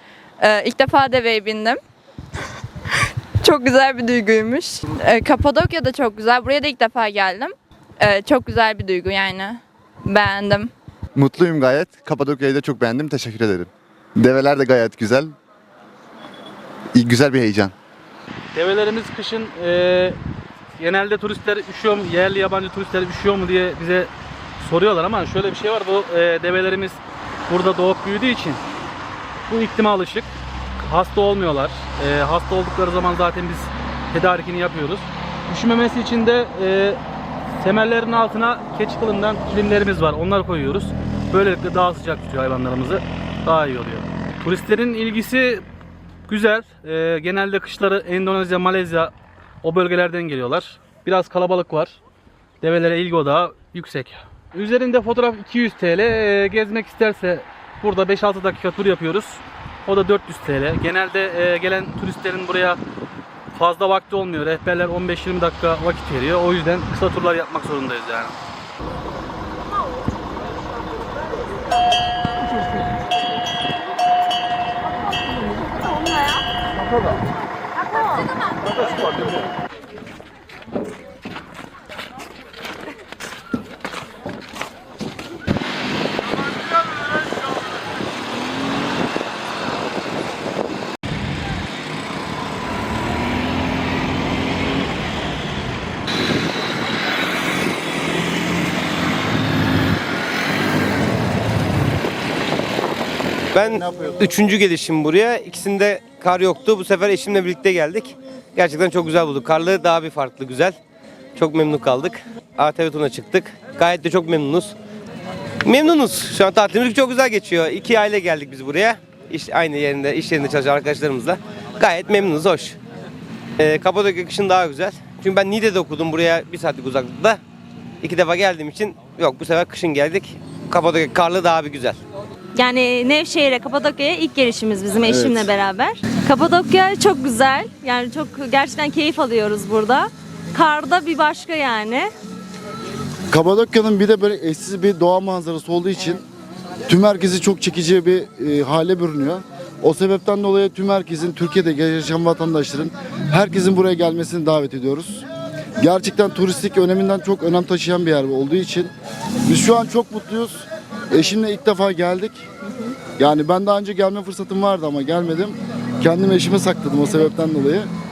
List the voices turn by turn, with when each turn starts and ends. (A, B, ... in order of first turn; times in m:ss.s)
0:00.4-0:01.8 A
0:02.9-0:10.7 A
0:11.2-0:15.3 B
0:16.9-0:17.7 B
0:18.5-0:20.2 C
0:20.8-0:28.6 C
0:29.5-0:37.0 C
0:37.6-0:45.6 C
0:46.3-0:52.0 C
0:52.6-1:02.8 C
1:03.5-1:08.4 C
1:43.5-1:50.8 D
1:43.7-1:44.2 E
1:51.4-1:54.7 D
1:55.6-2:02.8 D
2:03.6-2:07.4 D
2:08.0-2:12.0 D
2:12.6-2:22.1 F
2:15.0-2:15.5 E
2:23.3-2:26.2 E
2:26.9-2:35.2 E
2:35.8-2:38.9 E
2:39.4-2:42.5 E
2:43.2-2:47.9 E